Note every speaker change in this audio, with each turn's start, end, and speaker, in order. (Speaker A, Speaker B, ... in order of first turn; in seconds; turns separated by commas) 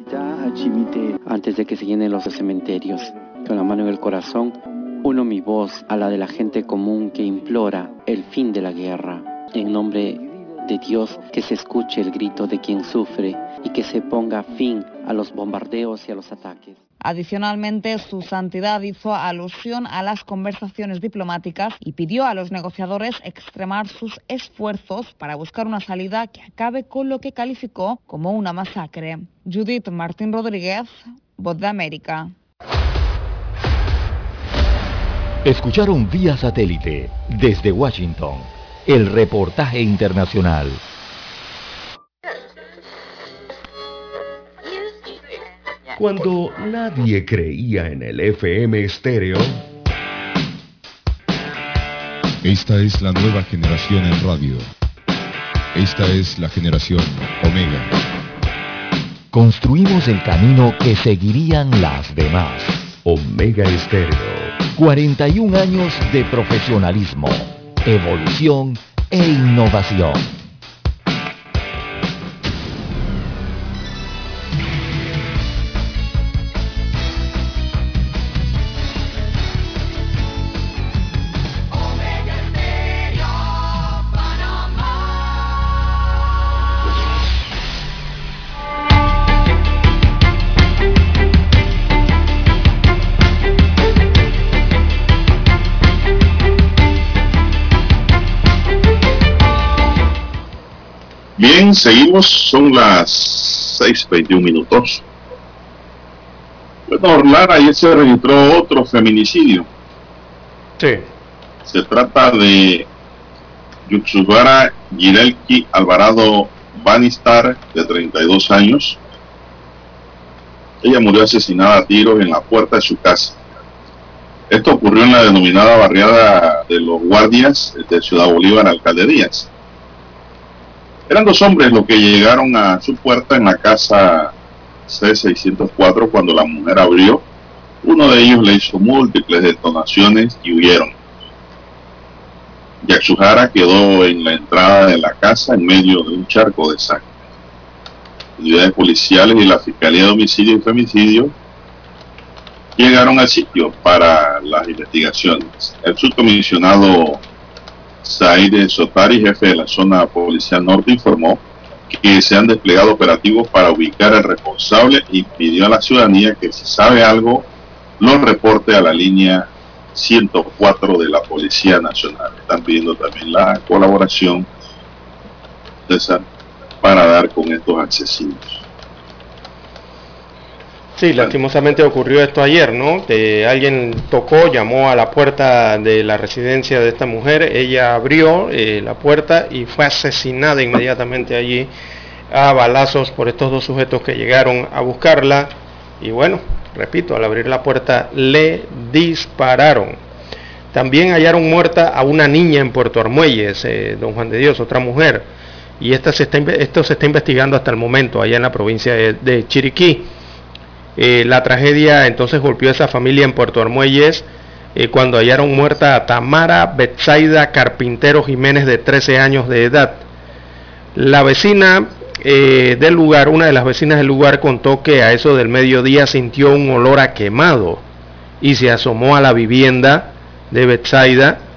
Speaker A: 0.5-16.8, Speaker B: 17.0-32.3, Speaker C: 35.4-40.8, Speaker D: 46.0-49.6, Speaker E: 52.4-54.7, Speaker E: 55.8-57.9, Speaker C: 59.3-62.9, Speaker D: 63.0-64.6, Speaker C: 64.7-70.3, Speaker F: 101.4-105.0, Speaker F: 106.9-109.7, Speaker G: 110.8-111.1, Speaker F: 111.7-112.9, Speaker F: 113.9-119.0, Speaker F: 120.8-123.4, Speaker F: 124.5-129.5, Speaker F: 131.1-134.3, Speaker F: 134.9-137.2, Speaker F: 137.8-140.9, Speaker F: 142.8-147.1, Speaker F: 148.4-151.3, Speaker F: 152.8-157.2, Speaker F: 158.0-167.5, Speaker F: 168.0-174.5, Speaker F: 175.9-176.2, Speaker F: 176.8-178.6, Speaker G: 181.0-191.7, Speaker G: 192.3-200.0, Speaker G: 200.7-205.3, Speaker G: 205.8-210.1, Speaker G: 211.0-220.1, Speaker G: 220.9-227.8, Speaker G: 228.4-231.4